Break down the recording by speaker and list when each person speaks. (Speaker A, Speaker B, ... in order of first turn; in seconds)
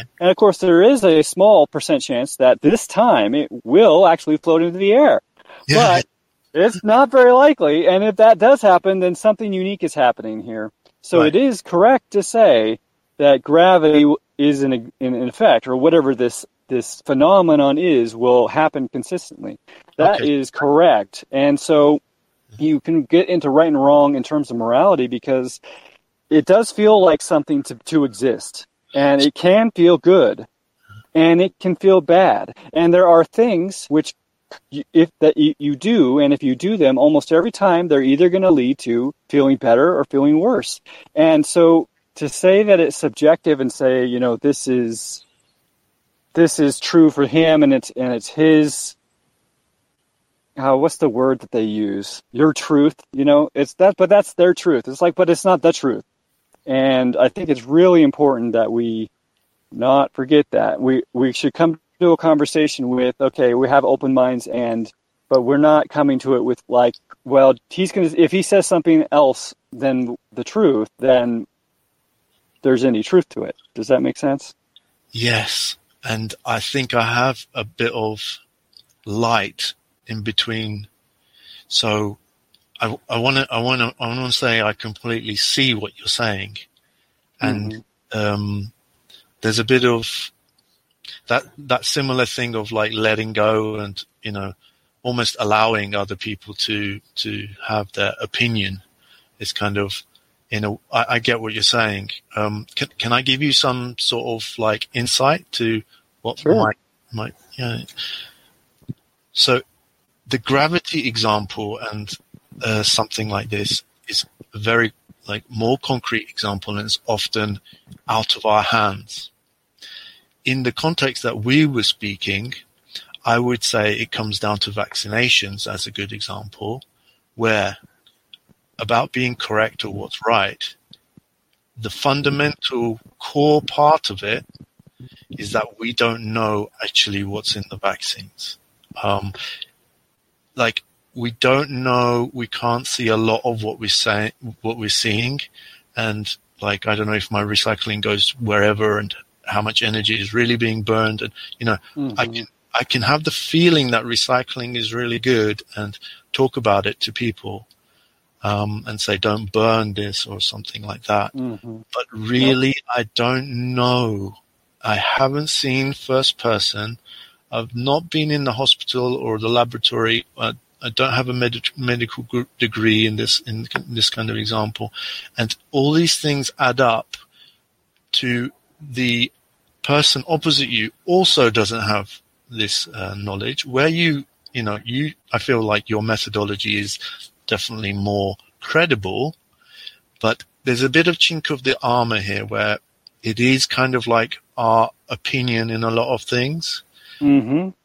Speaker A: 0.2-22.0, 22.6-25.6, 26.3-30.5, 31.1-34.1, 34.7-45.2, 46.3-49.0, 50.6-56.0, 56.7-59.1, 59.7-71.5, 72.6-74.5, 87.4-87.8, 106.4-106.7, 152.0-152.5, 161.3-161.8, 197.2-197.7
Speaker B: 5.7-6.0, 20.0-20.3, 75.1-78.4, 79.0-80.9, 81.7-82.2, 82.8-86.7, 87.4-88.7, 89.4-90.3, 91.3-98.8, 99.4-107.9, 109.3-109.6, 110.3-119.3, 120.4-122.6, 123.2-126.8, 127.3-127.8, 128.8-130.8, 131.8-134.4, 135.3-139.3, 140.6-157.7, 158.4-161.3, 161.9-167.0, 167.5-177.2, 178.1-179.3, 179.8-189.4, 190.2-196.8